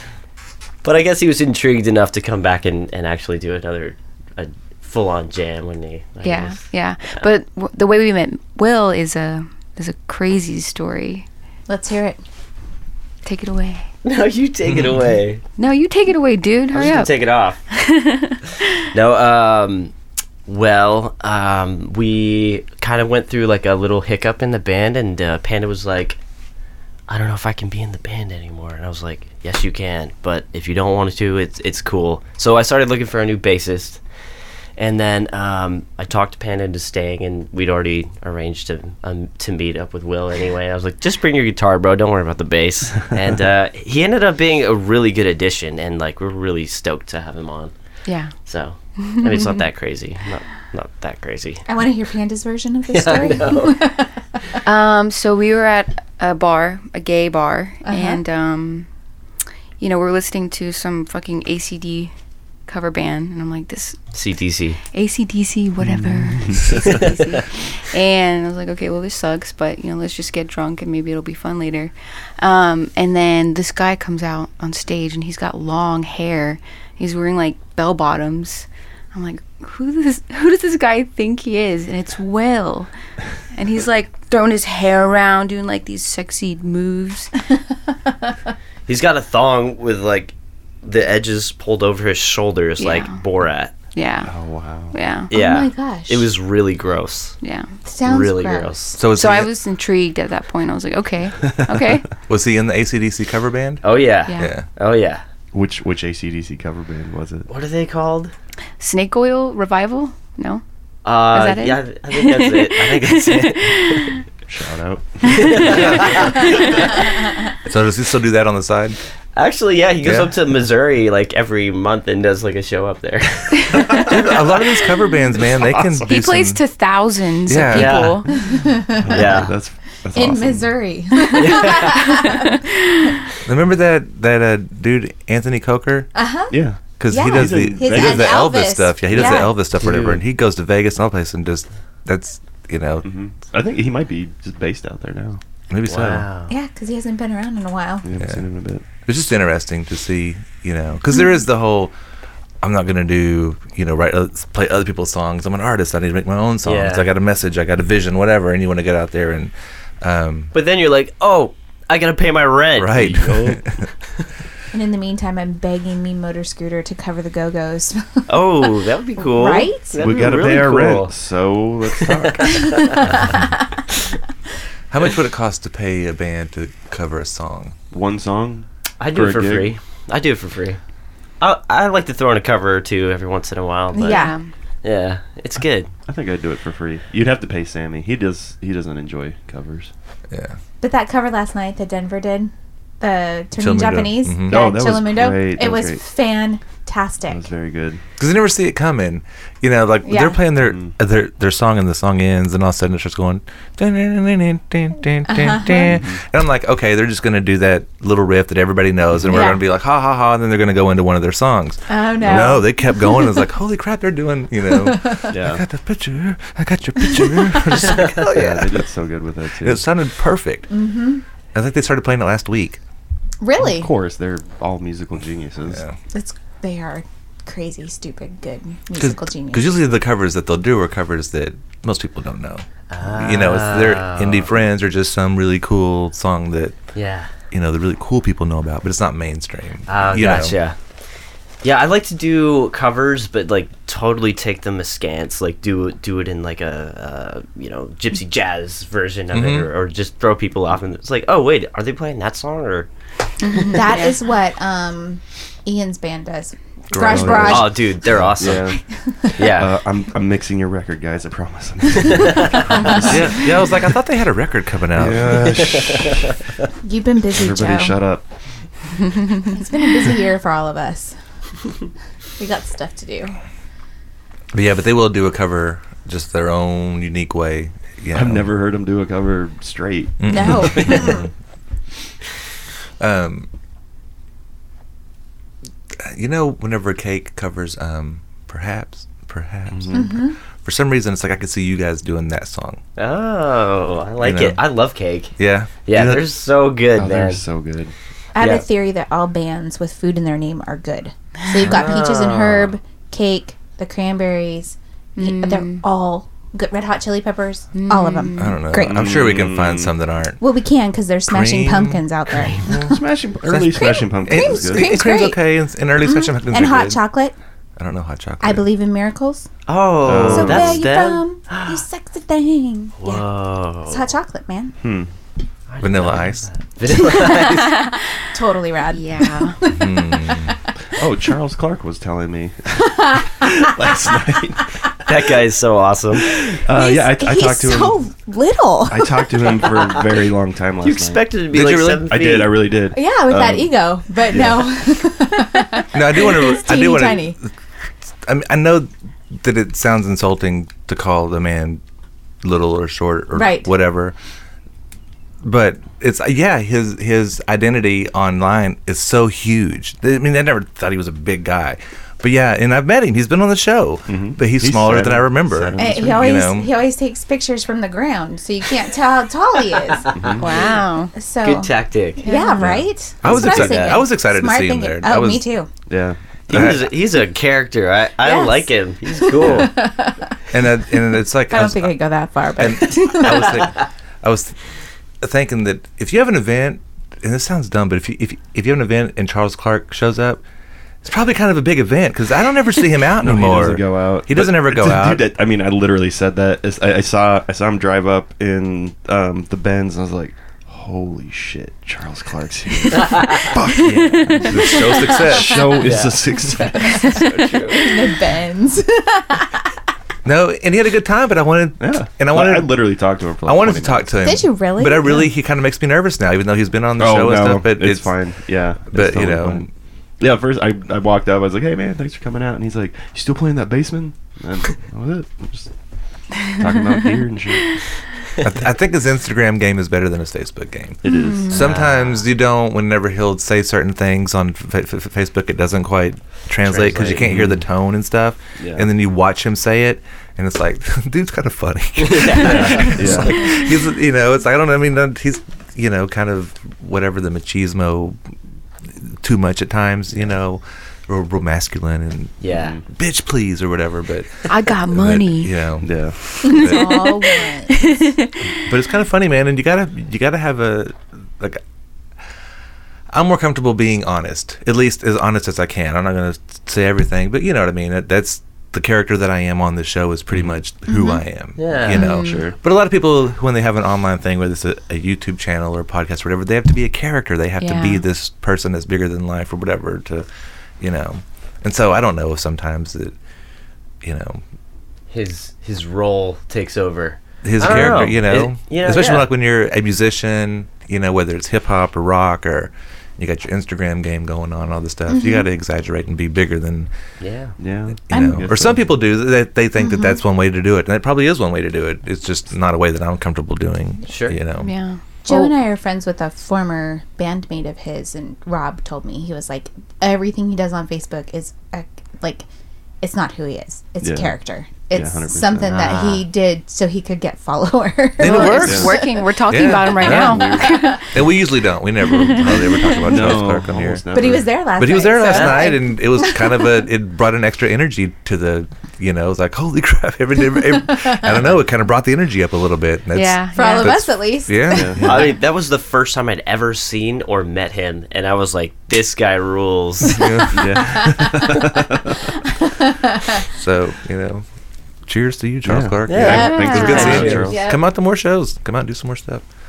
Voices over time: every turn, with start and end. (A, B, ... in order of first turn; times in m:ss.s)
0:00.8-0:07.3 A
0:06.2-0:11.2 B
0:11.7-0:12.2 C
0:13.2-0:13.9 B
0:14.0-0:15.4 A
0:15.6-0:18.4 B
0:16.7-0:17.6 A
0:18.8-0:19.9 A
0:20.4-0:26.2 A
0:27.1-0:34.0 A
0:34.8-0:47.7 A
0:48.1-0:48.3 B
0:48.4-0:51.6 A
0:49.0-0:49.5 B
0:51.6-0:54.1 C
0:52.9-0:53.9 A
0:54.6-0:58.9 B
0:57.8-0:58.2 C
0:59.8-1:02.1 B
1:02.7-1:04.2 B
1:04.1-1:04.8 A
1:04.9-1:22.9 B
1:06.1-1:06.7 D
1:06.6-1:07.4 A
1:23.5-1:27.3 B
1:28.9-1:33.7 A
1:32.8-1:33.2 B
1:33.9-1:34.3 B
1:34.2-1:34.9 D
1:34.9-1:35.3 B
1:35.3-1:37.4 A
1:35.3-1:36.3 C
1:37.4-1:37.7 B
1:37.8-1:39.0 C
1:38.0-1:39.0 A
1:38.9-1:39.5 E
1:39.1-1:42.0 B
1:42.3-1:43.8 E
1:43.8-1:45.2 A
1:44.3-1:44.6 E
1:45.5-1:47.5 D
1:47.5-1:48.3 A
1:48.8-1:50.6 B
1:51.0-1:54.1 A
1:51.3-1:54.2 B
1:54.4-1:56.8 D
1:55.3-1:56.9 A
1:55.4-1:56.8 B
1:55.7-1:56.3 E
1:57.6-1:59.0 E
1:59.3-2:04.0 A
2:00.0-2:00.3 E
2:03.7-2:04.1 B
2:04.1-2:06.6 E
2:06.0-2:08.4 B
2:07.5-2:08.3 E
2:07.7-2:08.2 A
2:08.4-2:09.2 C
2:08.9-2:10.7 D
2:09.1-2:09.5 A
2:10.1-2:12.6 C
2:11.3-2:12.4 A
2:12.1-2:13.1 B
2:13.4-2:16.1 E
2:16.1-2:16.5 C
2:16.5-2:18.4 D
2:17.0-2:23.1 E
2:17.1-2:19.6 C
2:19.1-2:20.2 D
2:23.0-2:25.4 D
2:25.7-2:26.3 E
2:25.9-2:26.5 A
2:26.5-2:28.1 C
2:28.0-2:28.8 D
2:29.0-2:31.9 E
2:32.6-2:40.5 E
2:36.6-2:37.1 A
2:40.5-2:43.8 A
2:42.8-2:43.8 E
2:44.7-2:50.0 C
2:48.3-2:51.1 A
2:50.0-2:52.8 D
2:51.9-2:52.9 A
2:52.5-2:53.5 C
2:54.9-2:57.8 E
2:57.9-2:59.7 D
2:59.0-3:00.8 A
3:01.4-3:04.2 A
3:03.9-3:04.4 C
3:04.0-3:04.5 B
3:04.8-3:05.9 A
3:06.0-3:09.9 D
3:10.3-3:10.6 E
3:10.8-3:17.5 C
3:13.6-3:14.6 E
3:14.5-3:16.0 D
3:17.3-3:18.0 D
3:18.2-3:38.8 E
3:20.0-3:20.4 C
3:25.3-3:25.9 C
3:29.2-3:29.6 C
3:31.9-3:33.4 C
3:34.7-3:35.3 C
3:35.3-3:35.6 D
3:37.0-3:38.0 C
3:38.0-3:39.8 D
3:39.6-3:40.7 E
3:40.7-3:41.2 C
3:41.5-3:42.8 E
3:43.4-3:43.9 C
3:43.6-3:45.8 D
3:45.7-3:46.0 E
3:46.1-3:49.7 C
3:49.0-3:56.7 E
3:52.9-3:54.5 A
3:56.9-3:57.3 A
3:57.5-4:00.5 E
3:59.9-4:00.8 A
4:01.6-4:13.9 A
4:09.3-4:09.7 E
4:13.4-4:14.2 B
4:13.6-4:17.9 C
4:16.9-4:17.7 E
4:17.0-4:18.8 D
4:17.5-4:18.8 A
4:19.1-4:19.5 C
4:19.4-4:19.7 A
4:19.4-4:23.6 D
4:22.1-4:23.0 A
4:22.8-4:23.2 C
4:23.1-4:25.6 E
4:24.9-4:26.1 D
4:25.4-4:26.3 A
4:26.8-4:28.0 C
4:27.3-4:28.2 D
4:29.3-4:31.1 C
4:32.4-4:33.4 C
4:34.5-4:38.5 E
4:38.1-4:41.2 D
4:40.2-4:41.3 E
4:40.3-4:41.3 C
4:43.0-4:43.5 E
4:45.9-4:52.8 E
4:49.7-4:50.1 D
4:49.9-4:50.4 C
4:53.0-4:55.3 A
4:54.2-4:54.6 E
4:55.4-4:56.3 E
4:55.8-4:57.4 A
4:56.9-4:57.9 D
4:58.3-5:09.1 C
4:58.4-4:58.6 A
5:01.6-5:02.7 A
5:05.2-5:05.8 B
5:07.7-5:08.6 B
5:08.3-5:10.4 E
5:08.8-5:10.0 D
5:10.4-5:13.0 C
5:11.3-5:12.1 E
5:12.6-5:15.0 D
5:13.5-5:17.0 E
5:13.7-5:15.4 C
5:16.0-5:17.3 C
5:17.8-5:18.7 E
5:18.4-5:19.5 C
5:19.7-5:21.8 A
5:20.0-5:20.8 D
5:20.3-5:23.3 C
5:23.0-5:24.0 A
5:23.8-5:24.8 C
5:24.8-5:25.1 D
5:25.7-5:27.9 A
5:25.8-5:26.5 E
5:27.2-5:27.7 C
5:28.3-5:30.6 C
5:28.9-5:29.6 B
5:29.7-5:30.6 E
5:31.0-5:34.8 D
5:33.0-5:33.3 C
5:35.0-5:36.3 A
5:36.3-5:38.0 D
5:36.7-5:39.7 C
5:38.9-5:41.3 D
5:40.8-5:42.6 A
5:41.5-5:42.1 E
5:42.0-5:44.7 D
5:42.9-5:47.4 C
5:45.9-5:47.5 E
5:48.2-5:51.8 E
5:52.4-5:54.1 E
5:53.3-5:53.7 C
5:55.4-6:06.7 E
6:04.1-6:06.3 D
6:05.8-6:10.5 C
6:10.0-6:10.8 A
6:10.1-6:10.5 D
6:10.4-6:11.1 B
6:11.1-6:15.7 C
6:11.4-6:12.3 A
6:12.2-6:12.7 B
6:13.2-6:14.0 A
6:13.2-6:15.4 E
6:15.9-6:16.8 D
6:16.5-6:19.7 A
6:16.5-6:16.8 E
6:18.2-6:20.3 C
6:20.5-6:22.0 E
6:21.5-6:23.7 C
6:22.6-6:24.6 E
6:25.2-6:30.4 E
6:31.0-6:35.2 E
6:33.2-6:47.7 D
6:43.8-6:45.6 E
6:43.9-6:44.5 B
6:44.8-6:45.4 C
6:45.8-6:46.2 A
6:46.9-6:49.7 C
6:47.1-6:47.9 A
6:50.2-6:52.8 E
6:51.8-6:54.3 D
6:53.4-6:58.1 E
6:54.2-6:55.3 C
6:57.0-6:59.7 D
6:58.9-6:59.7 E
7:00.2-7:05.7 D
7:06.4-7:07.8 D
7:08.4-7:28.2 E
7:11.0-7:11.6 D
7:11.1-7:11.5 B
7:11.5-7:12.2 A
7:16.6-7:17.4 A
7:17.1-7:17.6 D
7:18.6-7:18.9 D
7:22.0-7:23.6 A
7:22.4-7:23.5 D
7:28.8-7:37.1 E
7:32.4-7:32.8 A
7:32.6-7:32.8 D
7:34.5-7:35.6 B
7:35.8-7:36.2 D
7:36.2-7:38.4 B
7:36.4-7:38.1 C
7:38.6-7:41.6 E
7:43.1-8:00.2 E
7:50.9-7:51.2 C
7:51.6-7:52.0 A
7:51.9-7:52.4 B
7:52.1-7:52.6 D
7:57.6-7:58.0 B
8:00.8-8:03.2 E
8:04.0-8:04.4 E
8:05.1-8:09.3 A
8:07.4-8:16.9 E
8:15.1-8:15.4 C
8:17.2-8:17.6 A
8:17.6-8:18.8 D
8:18.1-8:24.7 E
8:18.1-8:18.5 C
8:19.8-8:20.2 C
8:24.0-8:24.4 A
8:24.6-8:25.0 B
8:25.2-8:32.4 C
8:33.0-8:39.2 C
8:34.0-8:34.4 D
8:34.9-8:35.9 D
8:35.6-8:36.3 A
8:38.2-8:38.9 E
8:38.2-8:41.2 B
8:38.4-8:38.9 D
8:39.5-8:40.6 E
8:39.9-8:40.8 D
8:40.6-8:41.0 C
8:41.1-8:44.0 E
8:42.0-8:43.0 B
8:42.4-8:44.5 D
8:44.1-8:46.9 C
8:44.8-8:55.2 E
8:45.2-8:45.7 A
8:53.1-8:54.0 B
8:53.5-8:55.3 C
8:54.7-8:55.0 D
8:55.0-9:00.2 A
9:00.1-9:00.8 E
9:00.2-9:03.4 C
9:00.5-9:02.1 D
9:03.5-9:04.4 E
9:05.0-9:09.4 E
9:05.6-9:07.6 D
9:06.1-9:07.6 A
9:06.2-9:07.8 C
9:06.3-9:07.2 B